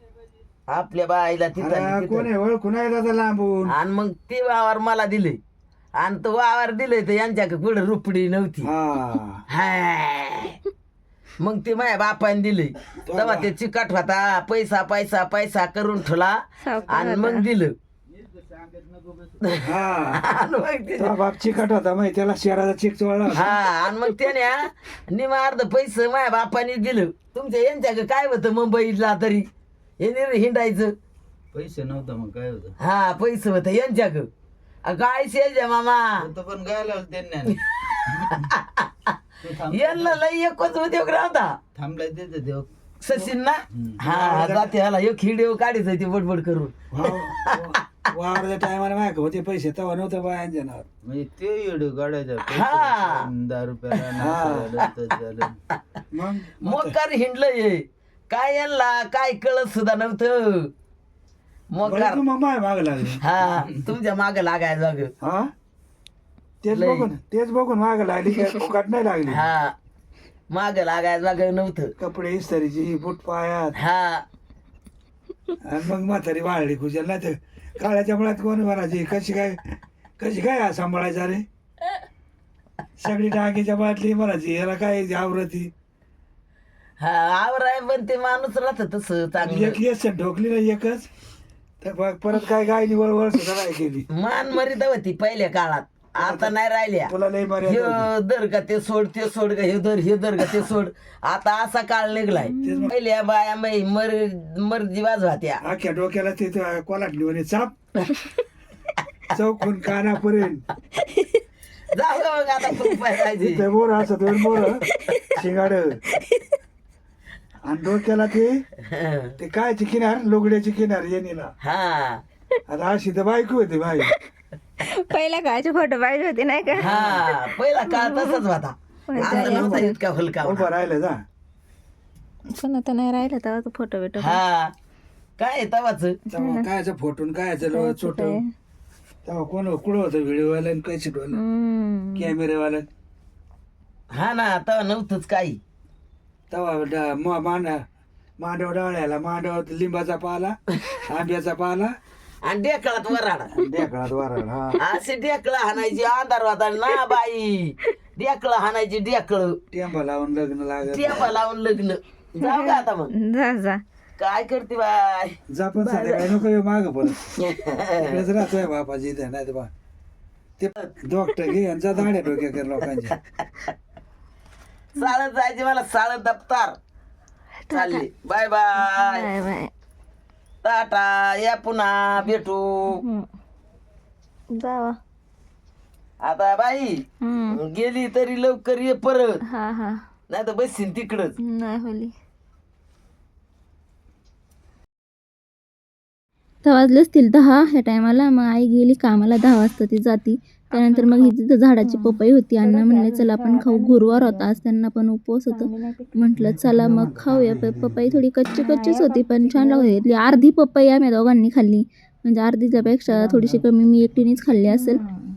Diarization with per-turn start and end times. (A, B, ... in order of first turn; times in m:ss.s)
0:00.7-0:02.3 A
0:01.6-0:03.8 B
0:03.7-0:05.4 A
0:06.0-0:08.7 A
0:08.6-0:09.4 B
0:09.5-0:10.6 A
0:11.4-0:17.7 A
0:13.0-0:13.5 B
0:16.6-0:17.5 C
0:18.1-0:19.5 D
0:19.6-0:20.2 B
0:20.2-0:21.1 A
0:21.0-0:23.4 B
0:23.3-0:29.5 A
0:30.0-0:30.9 A
0:31.5-0:32.7 D
0:32.8-0:34.3 A
0:34.8-0:36.1 A
0:36.2-0:37.6 D
0:38.3-0:39.2 A
0:39.4-0:40.2 D
0:39.7-0:41.6 A
0:41.8-0:44.0 D
0:43.0-0:46.7 A
0:44.0-0:44.7 B
0:46.9-0:50.9 B
0:51.0-0:55.6 D
0:52.5-0:53.3 A
0:54.2-0:54.7 B
0:56.1-0:57.0 B
0:56.6-1:00.7 A
1:01.7-1:02.2 A
1:01.8-1:03.2 B
1:03.2-1:05.1 A
1:05.2-1:05.5 B
1:06.6-1:09.5 B
1:06.7-1:07.1 A
1:09.3-1:09.8 A
1:10.5-1:11.9 A
1:12.0-1:13.8 B
1:13.8-1:14.3 A
1:15.6-1:21.4 B
1:23.0-1:25.7 B
1:27.0-1:29.8 A
1:29.4-1:31.1 B
1:31.8-1:34.1 B
1:34.2-1:37.1 A
1:36.2-1:36.5 B
1:37.1-1:38.1 B
1:37.6-1:45.6 A
1:42.3-1:42.9 E
1:42.6-1:43.0 B
1:45.6-1:47.8 B
1:49.3-1:50.6 B
1:51.9-1:53.6 A
1:53.4-1:56.0 B
1:57.6-1:58.6 B
1:58.9-1:59.3 A
1:59.4-2:01.5 B
2:01.6-2:02.2 A
2:02.7-2:04.1 B
2:04.9-2:08.4 C
2:06.8-2:07.2 B
2:06.8-2:10.7 A
2:09.1-2:10.0 C
2:09.2-2:09.9 B
2:10.4-2:11.2 B
2:12.6-2:14.4 E
2:12.9-2:14.1 C
2:14.2-2:14.7 A
2:15.4-2:16.2 A
2:16.3-2:18.4 B
2:16.4-2:16.7 C
2:17.7-2:18.0 E
2:18.0-2:18.4 C
2:19.2-2:21.4 B
2:21.4-2:22.3 E
2:22.2-2:22.9 B
2:24.1-2:25.6 A
2:26.5-2:27.8 B
2:28.4-2:32.0 B
2:32.4-2:33.5 A
2:33.5-2:34.8 B
2:34.8-2:39.6 A
2:39.7-2:41.4 B
2:40.8-2:43.1 A
2:42.4-2:43.8 C
2:44.2-2:46.3 A
2:45.5-2:47.4 B
2:47.4-2:48.1 A
2:48.0-2:49.7 B
2:50.6-2:53.2 B
2:55.0-2:56.8 A
2:57.7-2:58.0 C
2:57.7-2:59.3 A
2:58.8-2:59.7 C
3:00.6-3:03.0 A
3:04.5-3:04.9 C
3:06.2-3:09.4 A
3:07.2-3:07.5 E
3:09.5-3:10.0 C
3:10.3-3:11.4 A
3:11.4-3:12.1 E
3:11.7-3:12.0 C
3:16.6-3:35.0 E
3:20.7-3:24.6 C
3:25.5-3:26.2 C
3:26.3-3:28.2 B
3:28.5-3:30.1 C
3:32.8-3:34.4 B
3:34.7-3:35.2 C